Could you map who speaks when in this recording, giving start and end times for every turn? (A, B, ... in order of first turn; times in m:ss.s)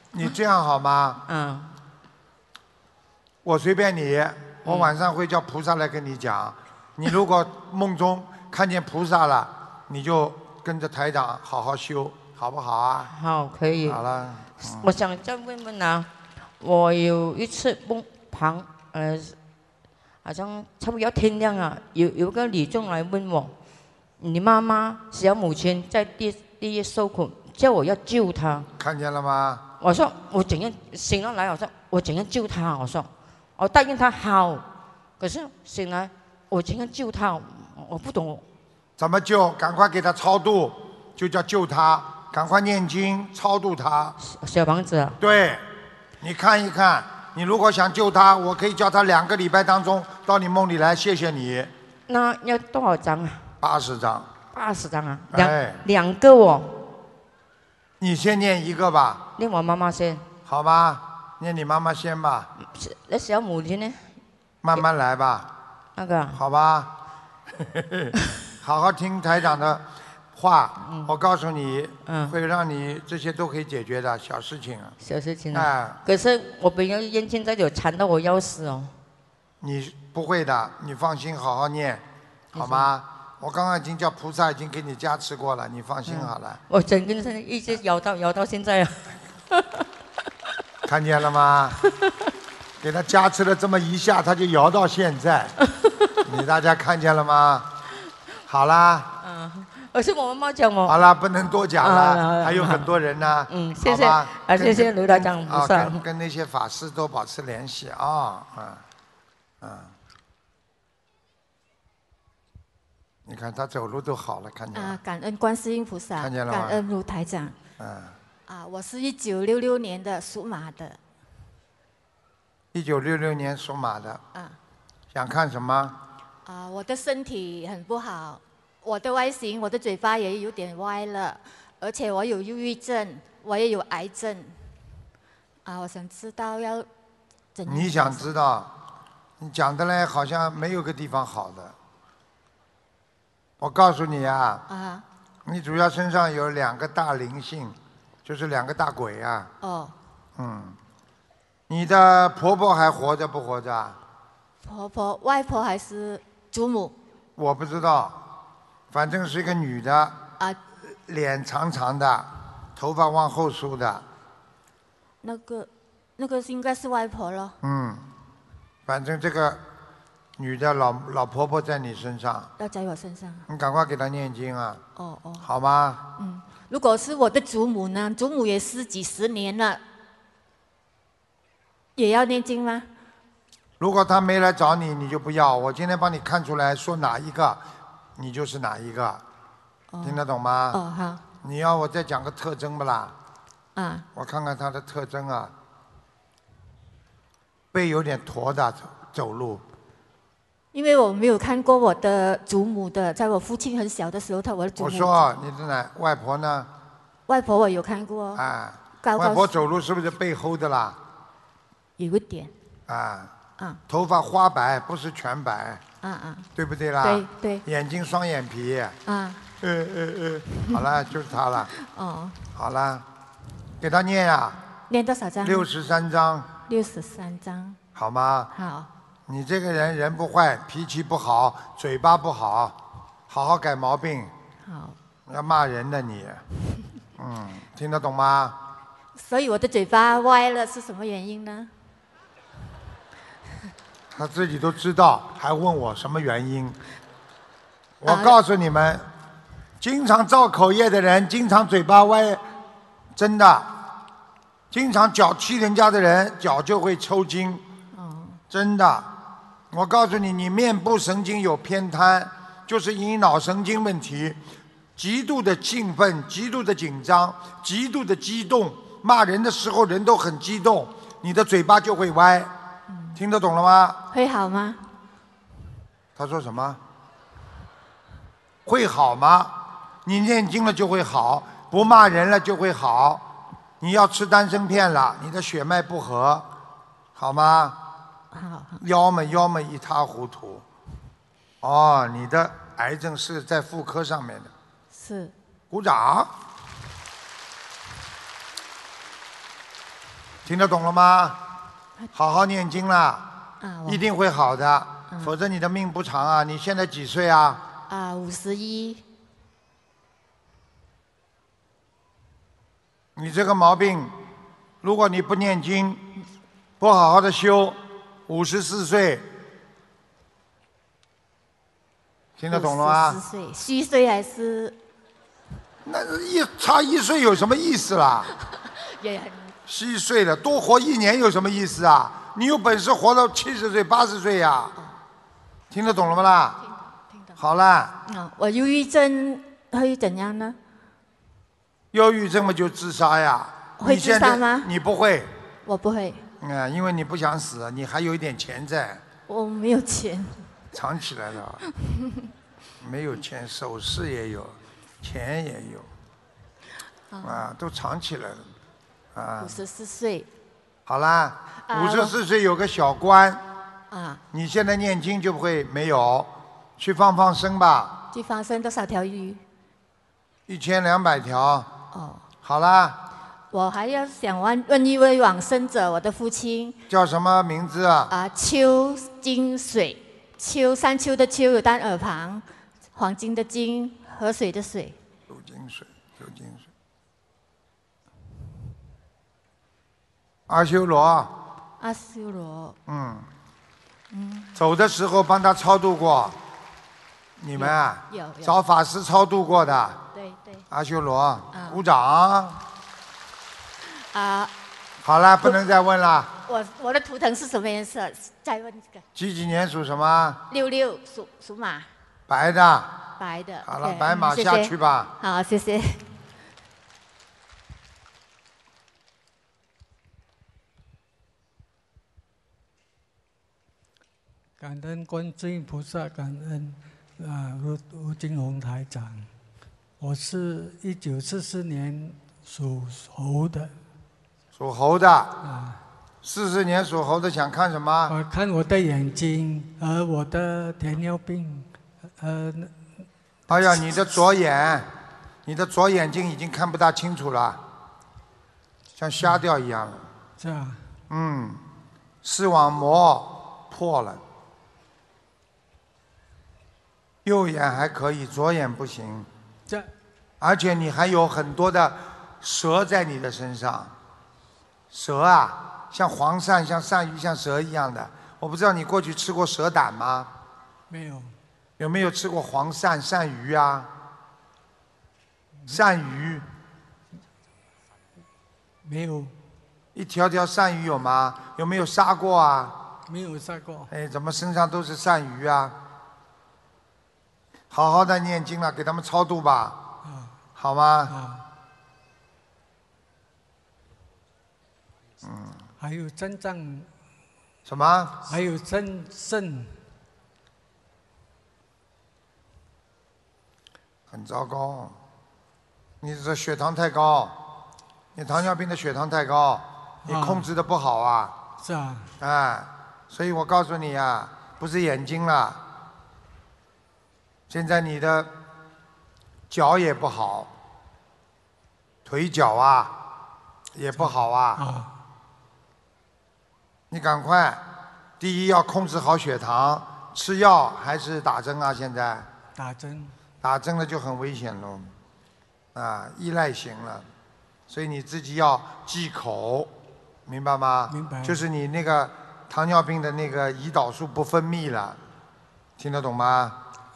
0:00.1-0:01.2 A
0:01.3-0:01.7 B
0:03.4-0:13.1 A
0:04.6-0:04.9 B
0:13.1-0:14.0 B
0:13.8-0:14.9 A
0:14.6-0:16.1 B
0:16.6-0:19.4 B
0:20.2-0:23.5 B
0:24.2-0:28.7 B
0:28.8-0:29.6 A
0:29.8-0:34.6 B
0:35.2-0:38.4 B
0:39.0-0:44.2 A
0:44.2-0:45.2 B
0:45.2-0:45.6 A
0:46.2-0:51.7 A
0:52.1-0:53.5 B
0:53.6-0:54.3 A
0:54.5-0:56.8 B
0:55.3-0:55.8 A
0:58.0-0:59.2 A
0:59.4-1:00.2 B
1:00.4-1:02.5 A
1:02.6-1:04.1 B
1:04.6-1:05.5 A
1:06.0-1:06.4 B
1:06.3-1:06.9 A
1:07.5-1:15.0 A
1:10.8-1:11.1 B
1:12.0-1:12.4 B
1:15.0-1:18.9 B
1:15.5-1:16.0 A
1:19.6-1:22.0 A
1:22.5-1:22.9 B
1:22.5-1:26.6 A
1:26.0-1:29.8 B
1:30.8-1:31.8 A
1:32.8-1:35.6 A
1:35.6-1:36.2 B
1:36.2-1:37.7 A
1:38.5-1:39.1 A
1:39.2-1:41.0 B
1:40.8-1:48.8 A
1:41.8-1:42.9 B
1:43.5-1:46.0 B
1:49.6-1:49.9 A
1:53.2-1:55.0 A
1:54.7-1:57.6 C
1:56.2-1:56.8 A
1:57.8-1:58.2 A
1:58.5-2:01.0 C
2:02.7-2:04.2 A
2:05.1-2:06.0 A
2:06.4-2:14.6 C
2:15.6-2:16.9 C
2:17.5-2:18.3 C
2:17.6-2:18.7 A
2:19.4-2:21.7 A
2:23.6-2:24.6 A
2:24.7-2:25.0 C
2:25.4-2:29.5 A
2:29.6-2:29.9 C
2:30.4-2:30.8 A
2:31.7-2:34.0 A
2:34.6-2:36.9 C
2:37.4-2:38.2 A
2:38.9-2:40.2 A
2:41.1-2:44.0 A
2:45.2-2:47.6 C
2:47.6-2:48.0 A
2:48.8-2:49.6 A
2:50.4-2:52.5 A
2:52.6-2:53.4 C
2:53.5-2:54.8 A
2:55.0-2:55.5 C
2:55.4-2:56.0 A
2:56.2-2:59.8 C
3:02.0-3:02.9 C
3:03.8-3:07.6 A
3:08.2-3:09.2 A
3:09.9-3:11.2 C
3:10.0-3:10.8 A
3:11.4-3:13.1 A
3:13.8-3:14.0 C
3:14.1-3:15.5 A
3:17.7-3:19.6 A
3:20.7-3:25.3 C
3:24.8-3:26.7 A
3:27.3-3:28.4 C
3:28.4-3:31.0 A
3:29.0-3:29.5 C
3:32.0-3:32.5 C
3:32.9-3:33.3 A
3:33.9-3:35.8 A
3:36.0-3:36.5 C
3:36.6-3:39.0 A
3:37.0-3:37.6 C
3:39.0-3:39.5 C
3:39.6-3:41.7 A
3:41.7-3:42.4 C
3:42.5-3:43.0 A
3:43.8-3:44.6 A
3:44.9-3:45.7 C
3:45.4-3:46.5 A
3:46.7-3:47.8 C
3:48.0-3:48.5 A
3:48.5-3:48.9 C
3:49.3-3:52.8 A
3:53.3-3:54.3 A
3:54.6-3:55.0 C
3:55.3-3:56.4 A
3:57.2-3:58.6 A
3:59.2-4:01.7 C
4:04.1-4:06.8 A
4:08.0-4:09.0 A
4:08.0-4:08.4 C
4:09.8-4:12.4 A
4:13.2-4:13.7 A
4:14.7-4:17.6 A
4:17.9-4:18.4 C
4:18.5-4:19.1 A
4:19.7-4:24.4 A
4:25.0-4:32.5 A
4:32.9-4:33.2 C
4:33.1-4:34.0 A
4:34.1-4:34.8 C
4:36.2-4:36.8 A
4:38.6-4:43.3 A
4:43.8-4:46.5 A
4:47.2-4:47.8 A
4:48.3-4:48.8 C
4:48.8-4:50.6 A
4:51.6-4:54.5 A
4:54.9-4:55.3 C
4:55.7-4:56.3 A
5:00.4-5:01.4 A
5:02.1-5:03.3 A
5:03.6-5:04.0 C
5:03.8-5:07.6 A
5:07.9-5:09.0 C
5:13.2-5:14.1 A
5:14.8-5:16.0 A
5:16.8-5:19.3 A
5:22.4-5:23.2 A
5:22.5-5:24.8 C
5:25.8-5:28.3 A
5:29.0-5:29.5 C
5:29.7-5:34.7 A
5:35.7-5:36.6 A
5:36.6-5:37.4 C
5:37.4-5:38.0 A
5:38.0-5:40.6 C
5:41.9-5:45.3 A
5:43.8-5:44.7 C
5:45.6-5:46.2 C
5:46.4-5:49.0 A
5:49.3-5:50.5 C
5:50.7-5:51.6 A
5:51.8-5:52.2 C
5:52.8-5:55.9 A
5:57.1-5:57.4 C
5:57.2-5:58.5 A
5:59.1-5:59.6 A
5:59.4-6:00.3 C
6:00.8-6:03.4 A
6:01.7-6:02.1 C
6:03.9-6:04.2 C
6:04.3-6:08.0 A
6:08.1-6:09.4 C
6:10.5-6:11.7 A
6:11.9-6:12.2 C
6:12.4-6:13.0 A
6:13.5-6:16.8 C
6:16.9-6:18.1 A
6:18.1-6:25.0 C
6:25.3-6:26.7 A
6:30.5-6:31.3 A
6:31.8-6:32.8 C
6:32.9-6:33.3 A
6:34.1-6:34.6 C
6:34.5-6:36.4 A
6:37.4-6:40.0 A
6:37.6-6:38.5 C
6:40.1-6:40.6 C
6:40.7-6:42.6 A
6:41.5-6:41.8 C
6:44.0-6:44.5 C
6:45.0-6:46.3 A
6:46.5-6:49.0 C
6:49.2-6:50.4 A
6:50.5-6:51.9 C
6:52.3-6:52.9 A
6:53.2-6:56.0 C
6:53.6-6:55.1 A
7:04.6-7:09.3 D
7:10.0-7:13.7 D
7:14.5-7:15.4 A
7:15.4-7:15.8 D
7:16.2-7:18.1 A
7:18.1-7:22.8 D
7:23.5-7:24.9 A
7:23.5-7:24.0 D
7:25.4-7:27.6 A
7:29.0-7:30.1 A
7:30.4-7:30.9 D
7:31.1-7:31.6 A
7:32.2-7:34.2 A
7:37.2-7:39.3 A
7:40.4-7:43.9 A
7:44.9-7:50.3 A
7:50.9-7:51.3 D
7:51.8-7:53.9 A
7:55.7-7:56.4 A
7:58.8-7:59.3 D
7:59.9-8:02.8 A
8:03.1-8:03.9 D
8:03.9-8:05.8 A
8:07.7-8:09.8 A
8:10.0-8:10.4 D
8:10.6-8:11.1 A
8:11.1-8:11.4 D
8:15.2-8:15.6 A
8:15.8-8:16.9 D
8:17.6-8:18.2 A
8:18.2-8:19.8 D
8:24.1-8:25.0 A
8:26.0-8:27.4 A
8:28.1-8:31.4 A
8:30.0-8:30.5 D
8:31.6-8:32.1 D
8:32.2-8:35.6 A
8:37.5-8:38.3 A
8:39.5-8:40.5 A
8:42.0-8:43.0 A
8:43.7-8:44.6 A
8:43.9-8:44.9 D
8:46.9-8:47.6 A
8:48.2-8:52.3 A
8:52.5-8:53.1 D
8:53.4-8:54.9 A
8:55.7-8:57.1 A
8:57.7-8:59.7 A
9:00.2-9:05.0 A
9:00.9-9:01.4 D
9:05.8-9:06.6 A